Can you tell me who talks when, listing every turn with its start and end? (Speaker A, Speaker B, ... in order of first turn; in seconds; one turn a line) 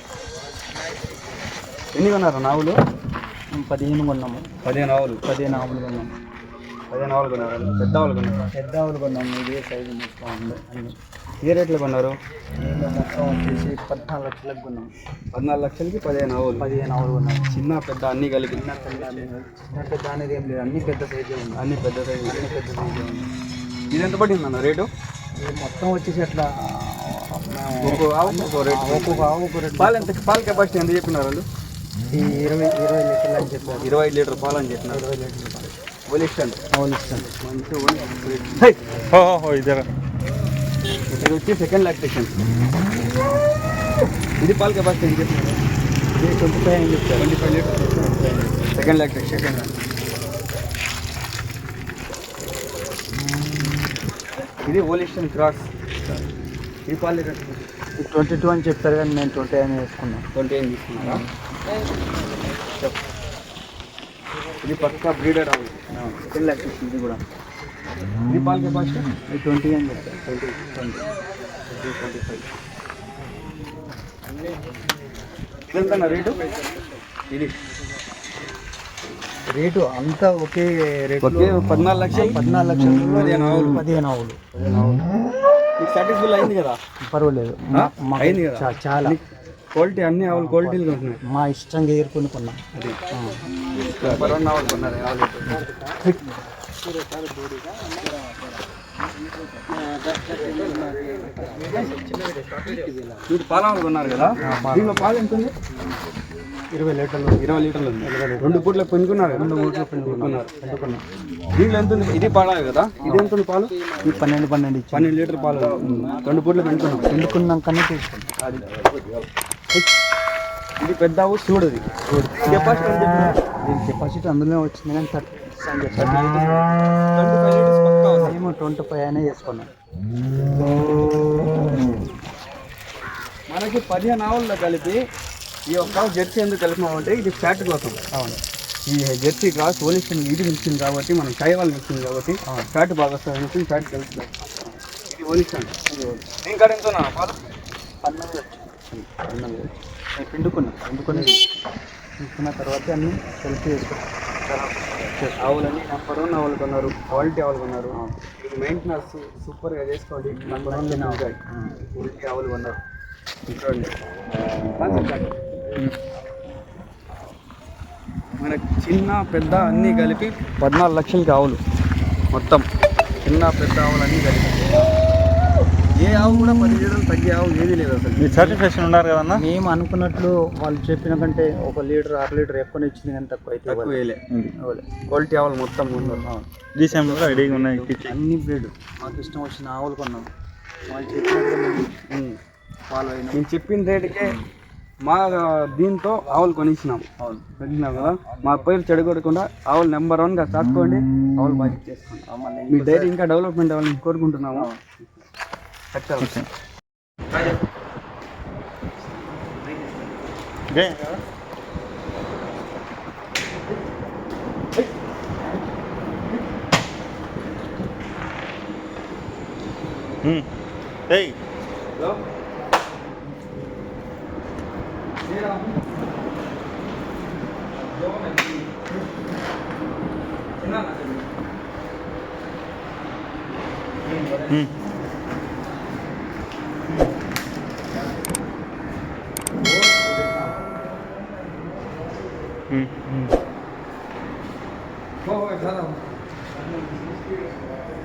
Speaker A: 1.9-2.8
Speaker B: 3.5-4.5
Speaker A: 4.6-5.2
Speaker B: 5.2-6.1
Speaker A: 6.9-8.5
Speaker B: 8.5-10.9
Speaker A: 11.4-12.1
Speaker B: 12.6-14.9
Speaker A: 15.3-16.6
Speaker B: 16.6-17.5
Speaker A: 17.5-19.3
Speaker B: 18.5-21.7
Speaker A: 21.6-22.4
Speaker B: 22.2-23.3
Speaker A: 23.9-24.9
Speaker B: 25.4-30.1
Speaker A: 27.8-31.4
Speaker B: 32.1-33.9
Speaker A: 33.8-35.0
Speaker B: 34.9-35.7
Speaker A: 36.1-36.6
Speaker B: 36.7-37.3
Speaker A: 37.4-38.8
Speaker C: 39.1-39.9
Speaker A: 41.1-42.3
Speaker A: 44.4-45.6
Speaker B: 46.1-48.6
Speaker A: 47.2-47.9
Speaker A: 48.7-49.7
Speaker B: 53.4-53.9
Speaker A: 54.6-55.7
Speaker A: 56.9-57.6
Speaker B: 58.0-60.3
Speaker A: 60.3-61.2
Speaker B: 61.0-61.3
Speaker A: 64.6-65.7
Speaker B: 65.9-67.2
Speaker A: 68.3-69.1
Speaker B: 69.3-71.0
Speaker A: 70.3-70.5
Speaker A: 71.8-72.4
Speaker A: 75.7-76.5
Speaker A: 77.3-77.5
Speaker B: 79.5-84.4
Speaker A: 81.2-82.4
Speaker A: 83.1-83.9
Speaker A: 84.5-85.1
Speaker A: 85.8-86.8
Speaker B: 87.1-89.2
Speaker A: 87.7-89.2
Speaker A: 89.7-91.2
Speaker B: 90.2-92.6
Speaker A: 92.7-93.0
Speaker A: 93.7-96.2
Speaker B: 94.0-96.2
Speaker B: 96.9-98.1
Speaker B: 100.1-103.2
Speaker A: 101.4-105.5
Speaker B: 104.4-105.2
Speaker B: 106.7-108.7
Speaker A: 107.4-110.5
Speaker B: 109.3-111.0
Speaker A: 111.5-113.7
Speaker B: 113.0-113.3
Speaker B: 114.0-118.3
Speaker A: 114.9-117.4
Speaker A: 118.4-118.9
Speaker A: 120.8-121.8
Speaker B: 122.1-123.0
Speaker A: 122.3-123.4
Speaker B: 123.6-126.4
Speaker A: 125.9-128.3
Speaker B: 128.2-129.7
Speaker A: 133.5-135.0
Speaker A: 135.7-145.7
Speaker B: 145.9-146.2
Speaker A: 146.4-147.4
Speaker B: 148.0-149.5
Speaker A: 149.1-149.6
Speaker B: 150.2-151.4
Speaker B: 152.2-155.6
Speaker A: 155.4-161.4
Speaker B: 160.3-161.6
Speaker A: 161.9-162.8
Speaker A: 163.5-163.9
Speaker A: 164.7-165.3
Speaker A: 168.4-171.6
Speaker A: 172.3-172.7
Speaker A: 173.2-174.9
Speaker A: 176.0-178.6
Speaker C: 178.2-179.4
Speaker B: 179.3-184.0
Speaker A: 183.7-184.2
Speaker B: 184.6-184.9
Speaker A: 185.1-186.3
Speaker B: 186.0-186.4
Speaker C: 186.8-188.1
Speaker A: 186.9-187.9
Speaker B: 188.0-190.3
Speaker B: 190.9-191.9
Speaker A: 192.1-192.4
Speaker B: 192.9-193.4
Speaker A: 193.3-194.3
Speaker A: 195.1-204.7
Speaker B: 197.2-197.4
Speaker B: 201.3-203.1
Speaker B: 204.5-204.8
Speaker A: 205.9-206.4
Speaker C: 206.2-206.5
Speaker C: 210.7-211.2
Speaker C: 220.2-220.5
Speaker C: 221.1-221.4
Speaker A: 221.9-222.2
Speaker A: 225.2-225.8
Speaker A: 227.8-228.8
Speaker A: 230.6-231.3
Speaker A: 234.0-234.6
Speaker A: 239.6-240.4
Speaker C: 242.7-243.3
Speaker A: 245.2-246.0
Speaker A: 246.5-247.6